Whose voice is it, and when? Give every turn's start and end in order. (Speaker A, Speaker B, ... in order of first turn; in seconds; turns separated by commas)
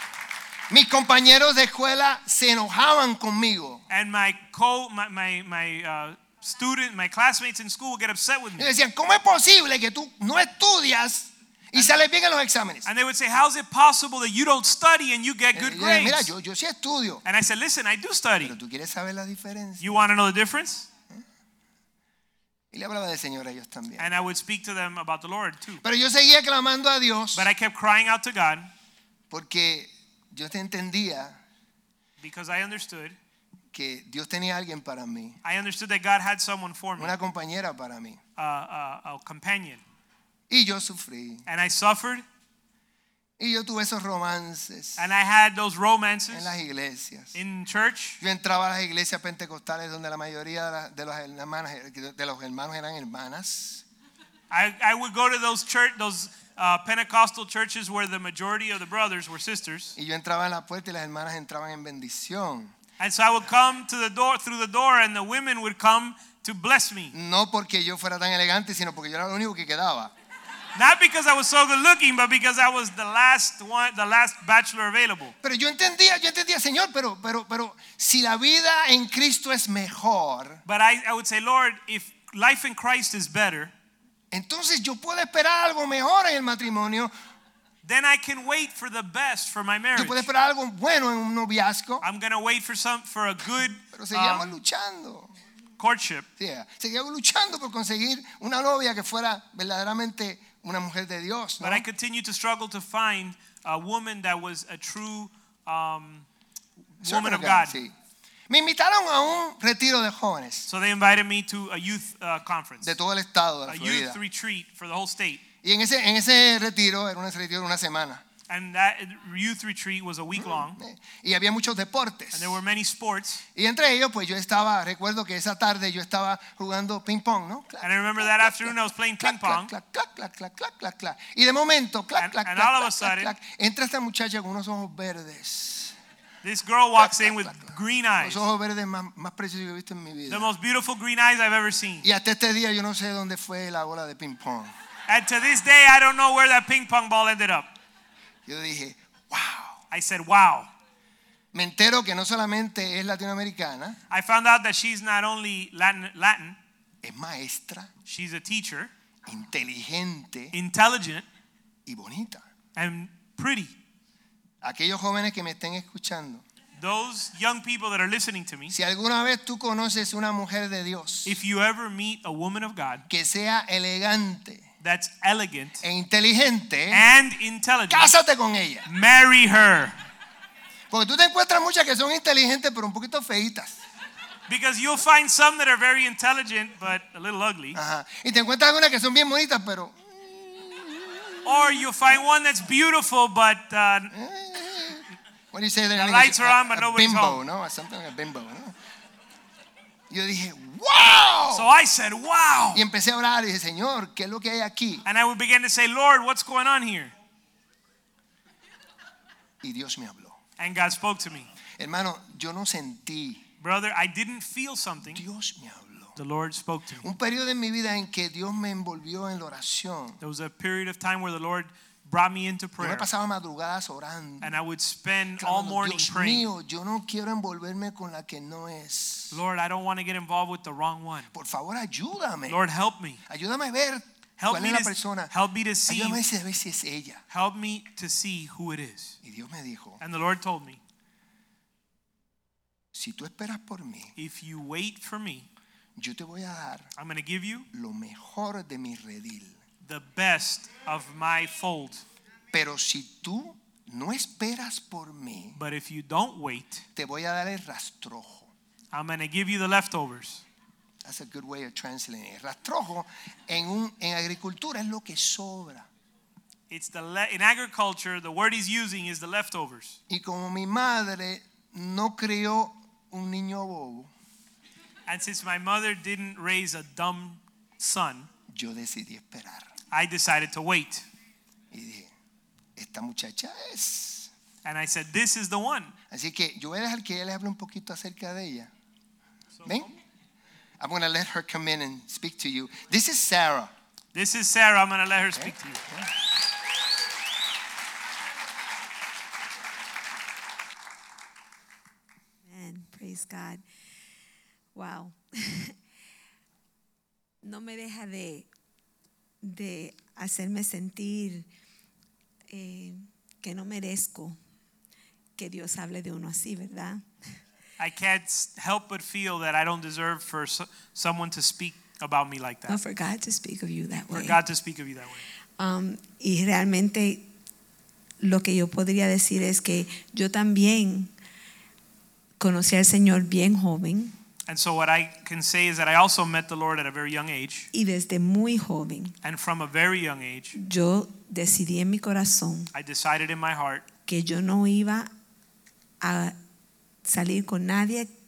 Speaker A: 0.7-3.8, Speaker B: 3.9-8.7, Speaker A: 8.6-12.9, Speaker B: 12.8-16.3, Speaker A: 15.5-17.2, Speaker B: 17.2-18.6, Speaker A: 18.4-19.9, Speaker B: 19.8-20.9, Speaker A: 22.7-24.1, Speaker B: 24.0-25.8, Speaker A: 25.8-27.5, Speaker B: 27.3-28.7, Speaker A: 29.3-31.4, Speaker B: 32.2-33.1, Speaker A: 33.7-35.4, Speaker B: 35.4-37.1, Speaker A: 37.0-38.2, Speaker B: 38.4-39.8, Speaker A: 40.5-41.5, Speaker B: 41.5-42.2, Speaker A: 43.4-45.0, Speaker B: 45.0-46.6, Speaker A: 46.3-47.4, Speaker B: 47.3-48.2, Speaker A: 48.2-53.8, Speaker B: 54.5-60.0, Speaker A: 60.0-62.7, Speaker B: 63.0-67.1, Speaker A: 67.1-70.1, Speaker B: 70.8-75.3, Speaker A: 75.4-80.6, Speaker B: 80.7-83.7, Speaker A: 84.3-87.1, Speaker B: 87.8-90.3, Speaker A: 89.9-92.0, Speaker B: 92.0-94.6, Speaker A: 93.9-95.3, Speaker B: 95.8-96.3, Speaker A: 96.4-101.8, Speaker B: 101.6-106.3, Speaker A: 107.0-107.9, Speaker B: 107.0-107.8, Speaker A: 108.5-110.7, Speaker B: 110.7-113.0, Speaker A: 112.8-114.2, Speaker B: 113.7-115.4, Speaker A: 115.6-118.2, Speaker B: 118.5-120.8, Speaker A: 120.3-122.6, Speaker B: 122.3-123.4, Speaker A: 123.5-135.9, Speaker B: 127.8-129.7, Speaker B: 132.2-133.3, Speaker B: 136.4-138.4, Speaker A: 137.0-140.5, Speaker B: 140.3-142.1, Speaker A: 142.0-144.7, Speaker B: 145.1-147.7, Speaker A: 148.4-149.8, Speaker B: 149.9-150.7, Speaker A: 151.5-154.0, Speaker B: 154.1-156.6, Speaker A: 157.0-157.9, Speaker B: 158.1-158.9, Speaker A: 159.2-160.5, Speaker B: 160.5-161.3, Speaker A: 161.9-162.4, Speaker B: 162.8-163.7, Speaker A: 164.6-166.4, Speaker B: 166.8-168.8, Speaker A: 168.7-171.4, Speaker B: 171.2-173.1, Speaker A: 173.1-174.7, Speaker B: 174.8-175.8, Speaker A: 175.8-177.0, Speaker B: 176.9-178.1, Speaker A: 177.9-178.9, Speaker B: 178.9-179.9, Speaker A: 180.9-183.8, Speaker B: 184.5-187.8, Speaker A: 187.8-191.8, Speaker B: 191.4-194.1, Speaker A: 194.1-198.8, Speaker B: 195.9-197.4, Speaker A: 200.1-201.7, Speaker B: 201.5-202.9, Speaker A: 202.7-205.0, Speaker B: 205.1-207.1, Speaker A: 209.6-210.4, Speaker B: 210.6-211.5, Speaker A: 211.8-213.4, Speaker B: 213.6-215.2, Speaker A: 215.1-216.2, Speaker B: 216.2-217.1, Speaker A: 217.0-220.2, Speaker B: 220.2-223.1, Speaker A: 222.8-224.5, Speaker B: 224.4-226.5, Speaker A: 225.4-229.4, Speaker B: 229.3-231.3, Speaker A: 231.3-232.6, Speaker B: 232.5-233.2, Speaker A: 233.3-235.3, Speaker B: 234.4-236.2, Speaker A: 235.9-237.2, Speaker B: 237.3-239.2, Speaker A: 239.2-240.0, Speaker B: 240.0-240.8, Speaker A: 242.9-244.1, Speaker B: 244.2-245.5, Speaker A: 245.9-246.9, Speaker B: 246.9-247.7, Speaker A: 247.7-249.6, Speaker B: 249.8-252.0, Speaker A: 252.5-255.6, Speaker B: 255.6-256.9, Speaker A: 256.9-258.5, Speaker B: 258.9-260.4, Speaker A: 261.0-265.9, Speaker B: 266.7-270.0, Speaker A: 270.1-274.1, Speaker B: 275.1-278.3, Speaker A: 278.5-279.7, Speaker B: 279.9-281.1, Speaker A: 281.7-282.1, Speaker A: 282.8-284.3, Speaker B: 284.6-285.9, Speaker A: 286.1-288.7, Speaker B: 289.6-289.9, Speaker A: 289.6-289.9, Speaker A: 290.8-293.7, Speaker B: 294.1-295.9, Speaker A: 295.4-296.1, Speaker C: 302.4-303.6, Speaker C: 304.7-305.8, Speaker C: 307.4-308.5, Speaker C: 309.4-311.5, Speaker C: 312.5-314.4, Speaker C: 315.4-317.0, Speaker B: 317.8-322.8, Speaker C: 322.7-324.4, Speaker B: 324.1-325.2, Speaker C: 325.6-327.3, Speaker C: 328.2-331.1, Speaker C: 332.4-334.1, Speaker B: 334.5-337.7, Speaker C: 337.7-339.1, Speaker B: 339.2-340.6, Speaker C: 340.6-342.7, Speaker B: 342.7-343.9, Speaker C: 344.1-345.1, Speaker C: 346.0-346.4, Speaker C: 347.0-348.1